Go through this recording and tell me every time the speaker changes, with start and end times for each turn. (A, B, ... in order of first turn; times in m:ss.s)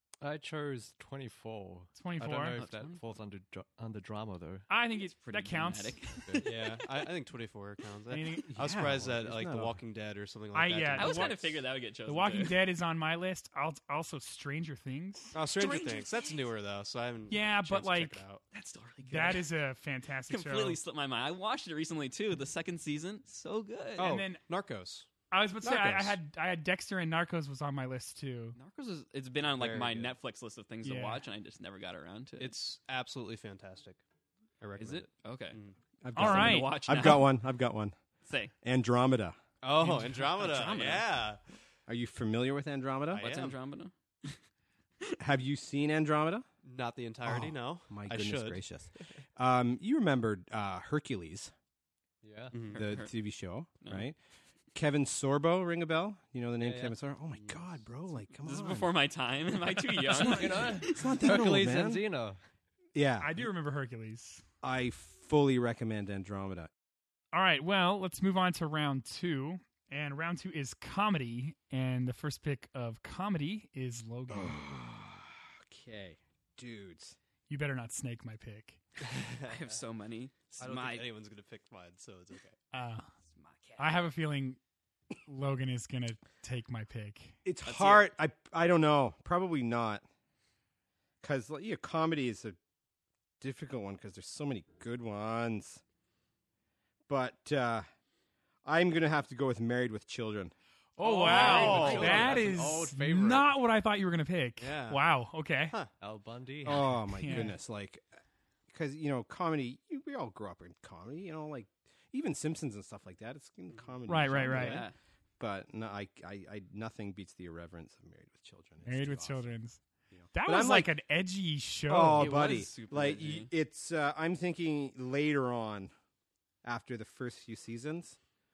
0:00.2-0:04.7 A
0:02.0-0:02.6 B
0:02.5-0:03.0 C
0:04.7-0:06.2 B
0:05.0-0:06.8 C
0:06.4-0:11.4 D
0:08.1-0:08.5 B
0:08.5-0:09.8 E
0:10.5-0:15.4 B
0:10.9-0:12.6 C
0:15.3-0:18.4 D
0:15.4-0:16.5 C
0:17.3-0:18.2 B
0:18.5-0:19.5 C
0:19.0-0:20.8 B
0:20.3-0:24.2 C
0:24.0-0:24.4 B
0:24.0-0:25.1 D
0:25.3-0:28.6 B
0:25.6-0:26.1 E
0:28.6-0:32.5 C
0:29.5-0:30.1 D
0:30.8-0:31.2 B
0:32.4-0:34.0 D
0:34.6-0:35.8 D
0:34.8-0:35.6 C
0:36.0-0:37.9 E
0:36.1-0:36.8 B
0:36.1-0:37.3 C
0:38.2-0:38.5 C
0:38.6-0:39.4 E
0:39.6-0:41.4 D
0:39.8-0:41.2 C
0:41.9-0:43.2 E
0:43.1-0:43.6 D
0:43.1-0:44.4 C
0:45.2-0:46.4 E
0:46.6-0:49.2 D
0:47.2-0:51.5 E
0:52.2-0:52.6 A
0:52.5-0:52.8 D
0:52.7-0:53.1 C
0:52.7-0:54.2 E
0:53.8-0:54.0 C
0:54.7-0:58.9 E
0:56.6-0:57.0 A
0:57.3-0:57.8 D
0:58.4-1:01.2 C
1:00.2-1:02.4 A
1:00.2-1:02.0 E
1:02.9-1:03.4 E
1:03.2-1:04.4 B
1:04.6-1:06.7 E
1:07.3-1:14.6 B
1:14.3-1:17.2 E
1:17.5-1:18.8 B
1:19.0-1:19.8 D
1:19.4-1:21.1 C
1:20.6-1:22.6 D
1:22.7-1:23.1 B
1:23.3-1:24.0 C
1:23.8-1:24.6 B
1:25.2-1:27.4 B
1:27.4-1:30.0 E
1:27.6-1:28.1 C
1:31.2-1:32.6 E
1:33.4-1:35.8 E
1:37.1-1:37.8 E
1:38.6-1:40.5 E
1:41.0-1:45.8 B
1:41.0-1:43.5 A
1:41.2-1:42.4 D
1:41.2-1:42.2 C
1:44.6-1:45.1 D
1:46.0-1:47.0 A
1:46.6-1:48.0 E
1:47.2-1:47.6 B
1:48.7-1:59.5 E
1:54.1-1:54.8 B
1:54.4-1:54.9 C
1:58.8-1:59.8 B
2:00.1-2:00.9 E
2:00.3-2:02.4 B
2:01.9-2:05.9 E
2:02.1-2:03.5 C
2:06.6-2:08.2 E